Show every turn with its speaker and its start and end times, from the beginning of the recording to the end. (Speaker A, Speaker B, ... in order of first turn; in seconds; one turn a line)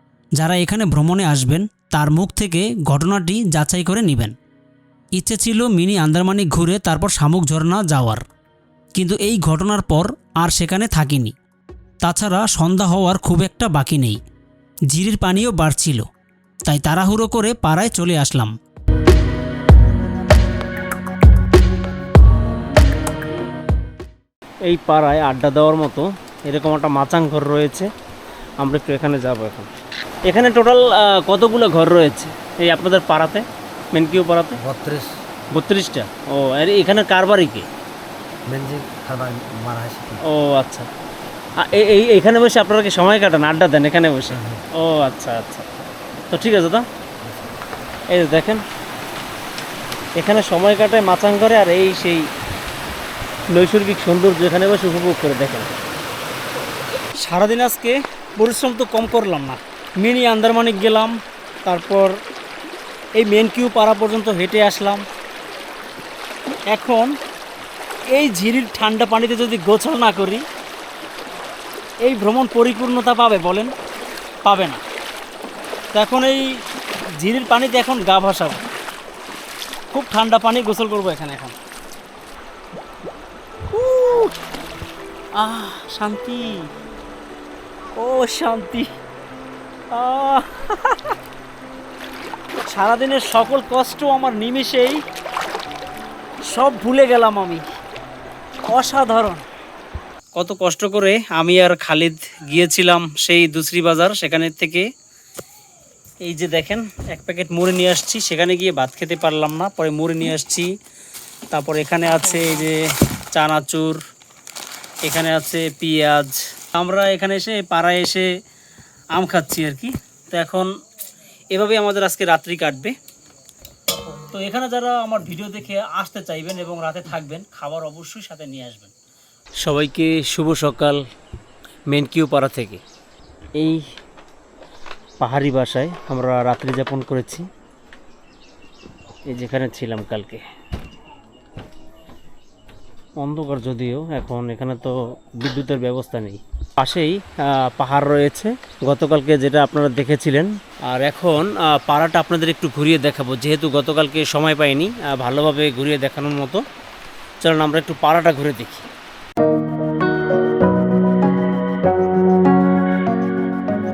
Speaker A: 0.3-4.3
Speaker A: 5.1-8.2
Speaker A: 8.9-11.3
Speaker A: 12.0-14.2
Speaker A: 14.9-16.1
Speaker A: 16.6-18.5
Speaker B: 24.6-27.9
Speaker B: 28.6-29.7
Speaker B: 30.2-34.6
Speaker C: 34.6-35.1
Speaker B: 35.5-37.6
Speaker C: 38.5-40.2
Speaker B: 40.2-40.9
Speaker B: 41.6-45.6
Speaker C: 44.3-44.6
Speaker B: 46.3-46.9
Speaker B: 48.1-48.6
Speaker B: 50.1-52.2
Speaker B: 53.5-55.7
Speaker B: 57.2-62.2
Speaker B: 63.1-65.0
Speaker B: 66.7-67.1
Speaker B: 68.1-70.4
Speaker B: 72.0-73.7
Speaker B: 74.4-74.8
Speaker B: 75.9-76.6
Speaker B: 77.2-78.6
Speaker B: 79.9-81.5
Speaker B: 83.7-84.3
Speaker B: 85.3-86.7
Speaker B: 88.0-88.9
Speaker B: 89.9-91.1
Speaker B: 92.7-95.0
Speaker B: 96.5-97.6
Speaker B: 98.7-99.4
Speaker B: 100.3-104.9
Speaker B: 106.2-110.7
Speaker B: 111.5-114.0
Speaker B: 115.0-118.3
Speaker B: 119.1-120.7
Speaker B: 121.5-123.0
Speaker B: 124.3-128.9
Speaker B: 129.6-131.0
Speaker B: 131.9-132.8
Speaker B: 133.6-133.9
Speaker B: 135.2-137.5
Speaker B: 139.3-140.4
Speaker B: 143.2-156.6
Speaker B: 157.4-158.9